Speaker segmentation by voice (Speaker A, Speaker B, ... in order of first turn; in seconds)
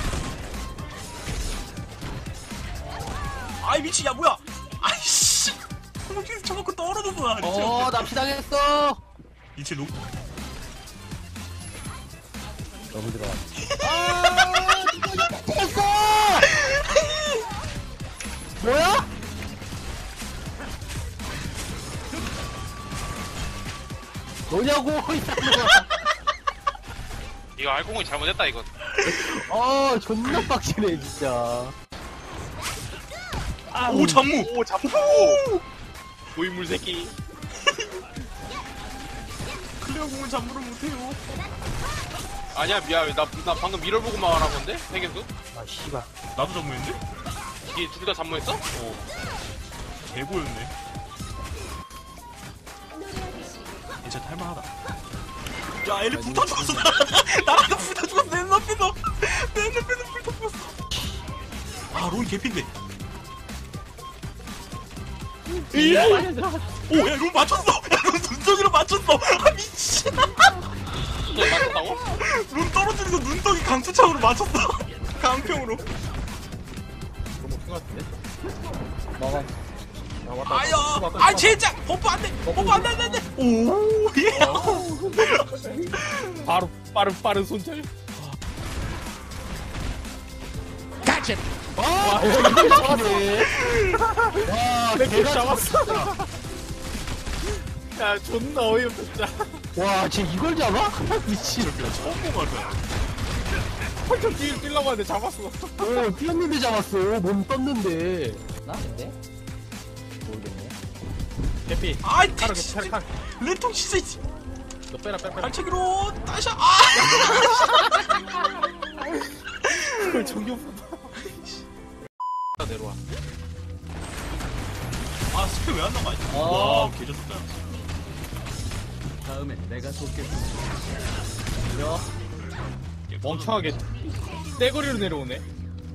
Speaker A: 3.6-8.2, 9.6-9.9, 13.6-14.8, 16.6-17.4, 33.8-35.6, 37.7-38.0, 39.8-41.2, 46.3-47.0, 48.7-49.0, 50.1-50.7, 54.0-54.7, 55.8-60.7, 61.9-62.7, 65.7-66.3, 66.9-70.5, 71.3-71.6, 72.2-75.8, 80.5-86.4, 93.4-94.0, 101.5-102.8, 112.0-114.2, 115.4-118.2, 119.6-120.2, 121.2-121.6, 125.3-127.5, 133.1-133.7
Speaker B: 7.4-9.0, 12.9-16.5, 18.6-19.1, 24.5-25.9, 29.0-31.7, 33.7-34.2, 45.5-46.1, 91.8-93.5, 94.3-96.1, 99.7-101.8, 105.8-108.4, 129.3-130.5
Speaker C: 27.6-28.7, 35.0-35.4, 36.3-37.1, 42.5-45.3, 47.7-48.6, 71.2-72.0
Speaker D: 34.4-35.3, 77.4-78.1, 80.2-81.7, 82.4-83.0, 84.3-84.8, 86.4-87.9, 92.0-93.3, 94.0-96.2, 97.9-99.6, 104.0-105.9, 111.7-113.1, 114.9-115.6, 117.1-117.5, 119.8-121.1, 122.6-123.0, 133.2-133.8, 134.6-135.4
Speaker E: 56.1-56.9, 65.5-66.7, 79.2-79.5, 84.5-85.9, 108.6-109.2, 110.2-110.8, 126.3-127.0, 131.7-132.1